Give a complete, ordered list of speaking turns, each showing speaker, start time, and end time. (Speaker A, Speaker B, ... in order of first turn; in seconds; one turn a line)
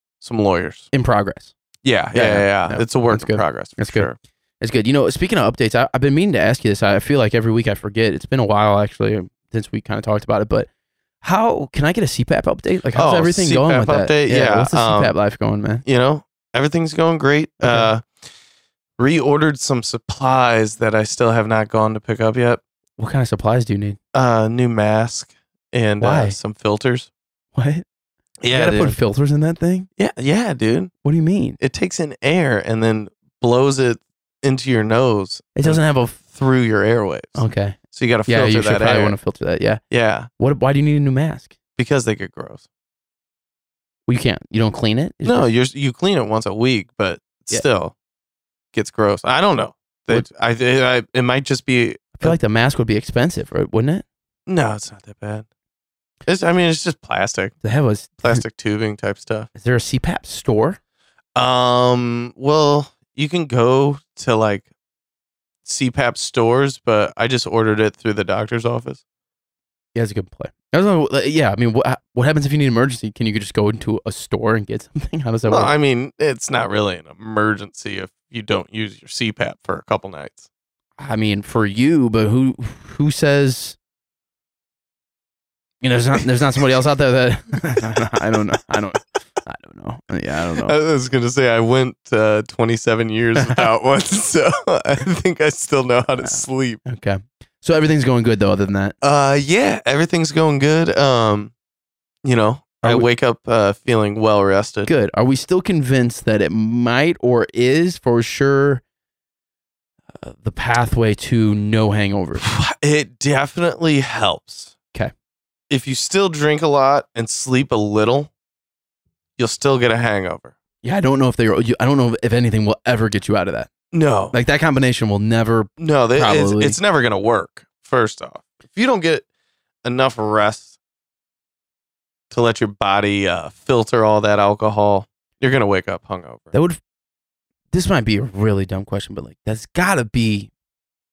Speaker A: 0.2-0.9
Speaker B: 0.9-1.5
Speaker A: 1.8-4.2
Speaker B: 2.1-10.7
Speaker B: 11.2-15.8
Speaker A: 12.9-15.1
Speaker A: 15.8-18.1
Speaker B: 17.6-17.9
Speaker A: 19.0-22.6
Speaker B: 23.0-24.0
Speaker A: 24.1-27.1
Speaker B: 26.0-26.4
Speaker B: 27.5-27.8
Speaker A: 28.4-29.0
Speaker B: 28.5-29.9
Speaker A: 30.0-30.9
Speaker B: 31.0-31.6
Speaker A: 31.6-39.1
Speaker B: 35.5-36.2
Speaker B: 37.4-39.8
Speaker A: 39.9-40.3
Speaker B: 40.4-41.5
Speaker A: 41.8-42.6
Speaker B: 44.1-45.5
Speaker A: 45.2-47.9
Speaker A: 48.7-52.4
Speaker B: 52.2-54.0
Speaker A: 54.5-55.5
Speaker A: 56.2-57.5
Speaker B: 57.6-58.4
Speaker A: 58.2-59.5
Speaker B: 59.5-60.8
Speaker A: 61.3-64.6
Speaker A: 65.6-69.0
Speaker B: 69.9-75.7
Speaker A: 75.5-80.5
Speaker B: 81.0-83.8
Speaker B: 85.8-90.7
Speaker A: 90.6-96.8
Speaker B: 93.4-93.6
Speaker B: 96.2-99.0
Speaker A: 99.0-101.5
Speaker A: 102.2-104.9
Speaker B: 104.9-108.8
Speaker B: 110.2-112.4
Speaker A: 112.4-114.7
Speaker A: 115.7-118.3
Speaker A: 119.4-120.5
Speaker B: 120.8-123.7
Speaker A: 123.9-124.3
Speaker B: 124.3-126.8
Speaker A: 125.8-129.2
Speaker A: 129.8-130.7
Speaker A: 132.3-136.5
Speaker B: 136.5-136.8
Speaker B: 137.7-140.5